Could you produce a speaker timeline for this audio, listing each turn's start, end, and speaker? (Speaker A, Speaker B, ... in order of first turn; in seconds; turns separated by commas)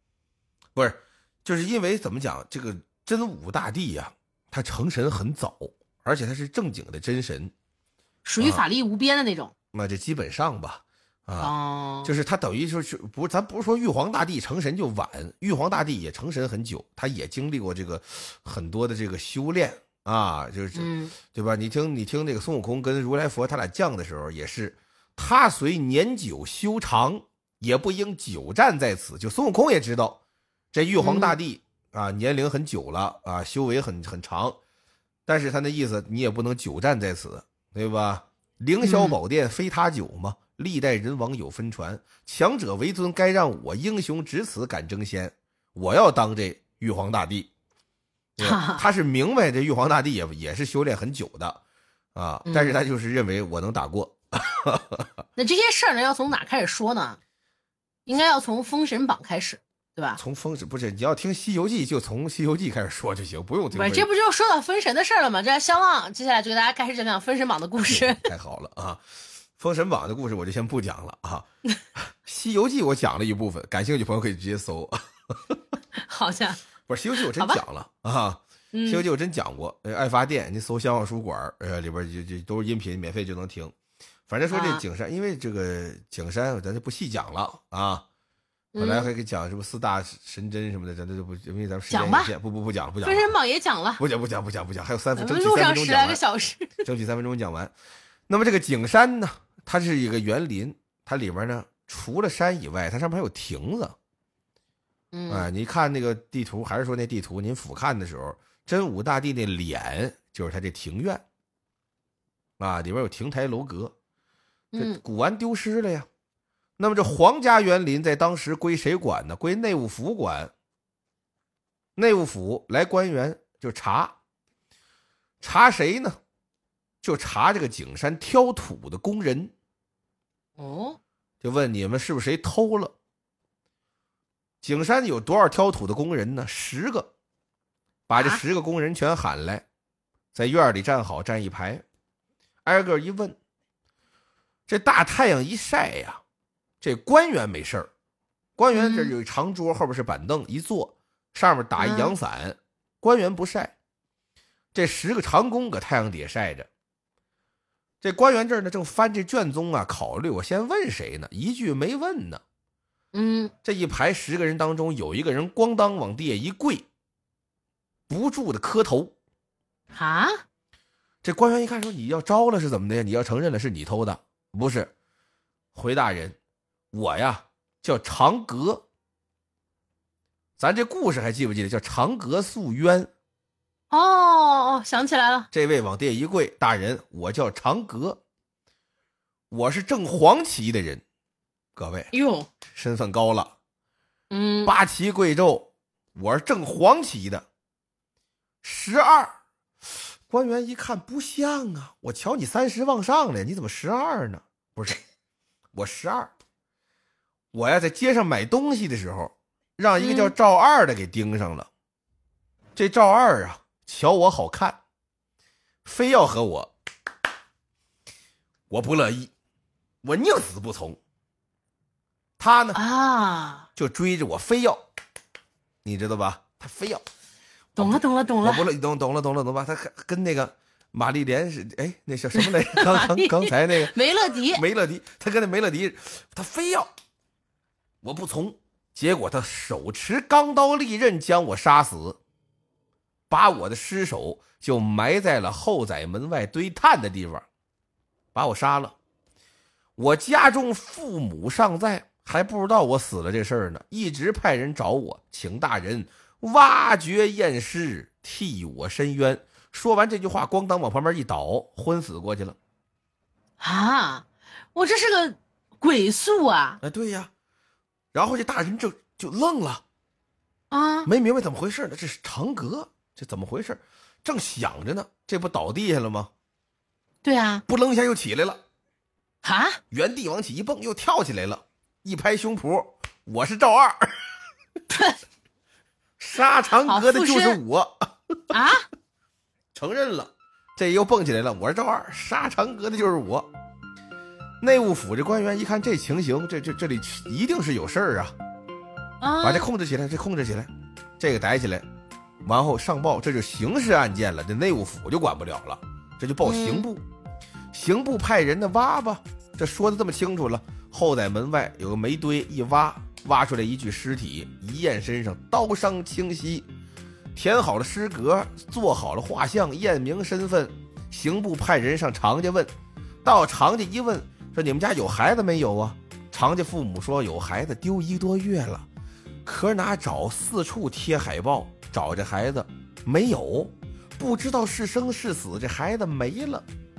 Speaker A: 0.7-7.5, Speaker B: 8.2-9.5, Speaker A: 8.4-8.6, Speaker A: 9.7-30.2, Speaker B: 11.4-12.1, Speaker B: 20.7-21.1, Speaker A: 30.7-34.6, Speaker B: 31.0-31.4, Speaker A: 35.3-47.5, Speaker B: 38.8-39.2, Speaker A: 48.4-51.6, Speaker B: 48.4-48.8, Speaker A: 52.1-55.1, Speaker B: 52.5-52.8, Speaker B: 55.4-57.2, Speaker B: 58.1-60.2, Speaker A: 60.2-64.1, Speaker B: 63.7-68.2, Speaker A: 67.8-69.0, Speaker A: 69.6-75.6, Speaker B: 76.0-76.6, Speaker A: 76.9-83.7, Speaker B: 77.2-77.6, Speaker B: 78.7-79.0, Speaker A: 84.3-88.0, Speaker B: 84.5-84.8, Speaker B: 88.7-89.1, Speaker A: 88.8-93.3, Speaker B: 91.9-92.3, Speaker B: 93.0-94.0, Speaker A: 94.0-96.2, Speaker B: 95.2-96.8, Speaker A: 96.8-97.7, Speaker A: 98.3-104.0, Speaker B: 105.1-105.5, Speaker A: 105.3-111.2, Speaker A: 112.6-113.9, Speaker B: 114.7-115.0, Speaker A: 114.8-116.1, Speaker A: 116.8-120.5, Speaker A: 122.0-124.1, Speaker A: 125.4-126.2, Speaker A: 127.0-129.5, Speaker B: 130.6-131.0, Speaker A: 131.4-132.9, Speaker A: 134.6-137.1, Speaker A: 138.1-139.6, Speaker B: 138.1-138.4, Speaker A: 140.3-141.8, Speaker A: 142.6-143.3, Speaker A: 144.7-146.2, Speaker A: 146.8-147.9, Speaker A: 148.6-153.7, Speaker B: 148.7-149.1, Speaker B: 151.8-152.1, Speaker A: 154.7-156.7, Speaker A: 158.0-162.4, Speaker B: 163.1-163.5, Speaker A: 163.6-166.8, Speaker A: 168.1-169.1, Speaker B: 169.9-170.4, Speaker A: 171.2-174.9, Speaker A: 175.7-176.4, Speaker A: 176.9-178.8, Speaker A: 180.6-183.1, Speaker B: 183.9-185.5, Speaker A: 185.5-188.2, Speaker A: 189.5-191.0, Speaker A: 191.7-192.1, Speaker B: 192.1-192.5, Speaker A: 192.7-193.5, Speaker B: 194.3-194.7, Speaker A: 194.7-197.4, Speaker A: 198.6-199.3, Speaker A: 200.3-205.0, Speaker A: 205.7-206.3, Speaker A: 207.5-211.7, Speaker B: 210.0-210.3, Speaker A: 212.8-214.8, Speaker A: 215.8-216.7, Speaker A: 218.7-219.3, Speaker A: 220.0-221.0, Speaker A: 222.4-222.8, Speaker B: 222.7-223.7, Speaker A: 223.8-224.8, Speaker A: 225.8-227.0, Speaker A: 227.7-233.9, Speaker B: 227.8-228.6, Speaker B: 232.3-234.6, Speaker A: 234.5-236.9, Speaker A: 238.0-242.2, Speaker A: 243.3-247.4, Speaker A: 248.3-248.9, Speaker A: 250.0-262.6, Speaker B: 263.6-266.8, Speaker A: 266.8-267.3, Speaker A: 268.1-269.8, Speaker B: 270.7-271.1, Speaker A: 271.1-276.3, Speaker B: 277.2-277.6, Speaker A: 277.7-278.6, Speaker B: 279.4-279.8, Speaker A: 279.9-284.2, Speaker B: 284.9-285.2, Speaker A: 286.2-288.4, Speaker B: 286.9-287.6, Speaker B: 288.5-288.9, Speaker A: 289.7-293.5, Speaker A: 294.6-298.3, Speaker B: 299.2-299.7, Speaker A: 299.4-301.8, Speaker A: 302.4-307.0, Speaker B: 306.4-306.9, Speaker A: 307.7-316.7, Speaker A: 317.3-322.7, Speaker A: 323.2-328.9, Speaker A: 329.4-336.6